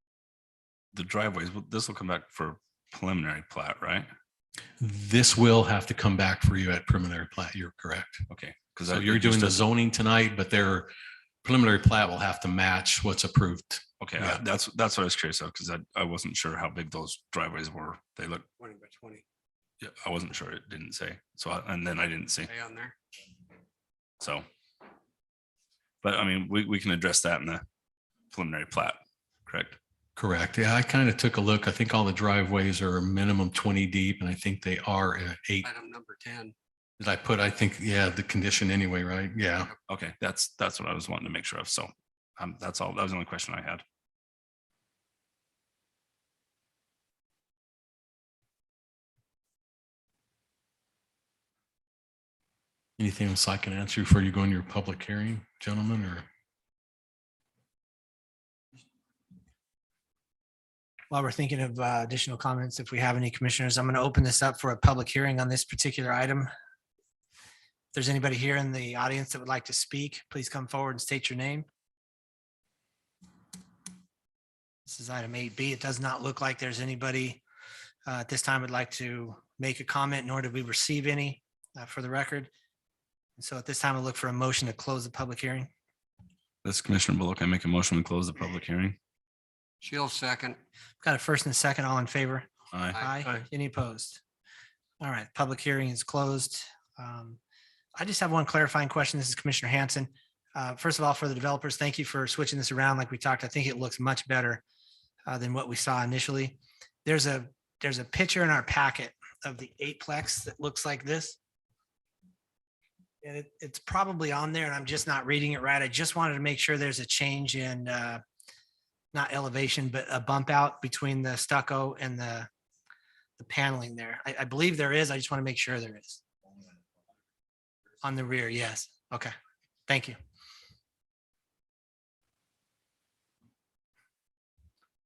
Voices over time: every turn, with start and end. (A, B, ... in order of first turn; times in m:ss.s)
0:00.9-0:04.1 A
0:04.8-0:08.2 B
0:08.3-0:09.6 A
0:08.9-0:10.9 B
0:11.4-0:14.4 B
0:14.0-0:18.5 A
0:18.6-0:19.2 C
0:19.8-0:22.5 A
0:22.4-0:23.0 C
0:24.2-0:24.4 A
0:26.0-0:27.6 A
0:28.3-0:29.8 A
0:30.2-0:35.7 B
0:35.6-0:36.6 C
0:37.0-0:39.7 B
0:39.9-0:43.8 A
0:53.0-0:56.3 B
1:01.1-1:06.5 D
1:07.9-1:11.7 D
1:14.9-1:17.4 D
1:18.1-1:22.5 D
1:23.4-1:25.7 D
1:26.6-1:29.0 A
1:29.8-1:30.6 C
1:31.0-1:34.2 D
1:32.7-1:33.4 A
1:32.9-1:33.2 C
1:35.0-1:37.4 D
1:38.0-1:44.6 D
1:45.3-1:51.4 D
1:53.2-1:58.2 D
1:59.1-2:02.5 D
2:03.4-2:06.2 D
2:08.0-2:09.3 D
2:09.9-2:10.2 D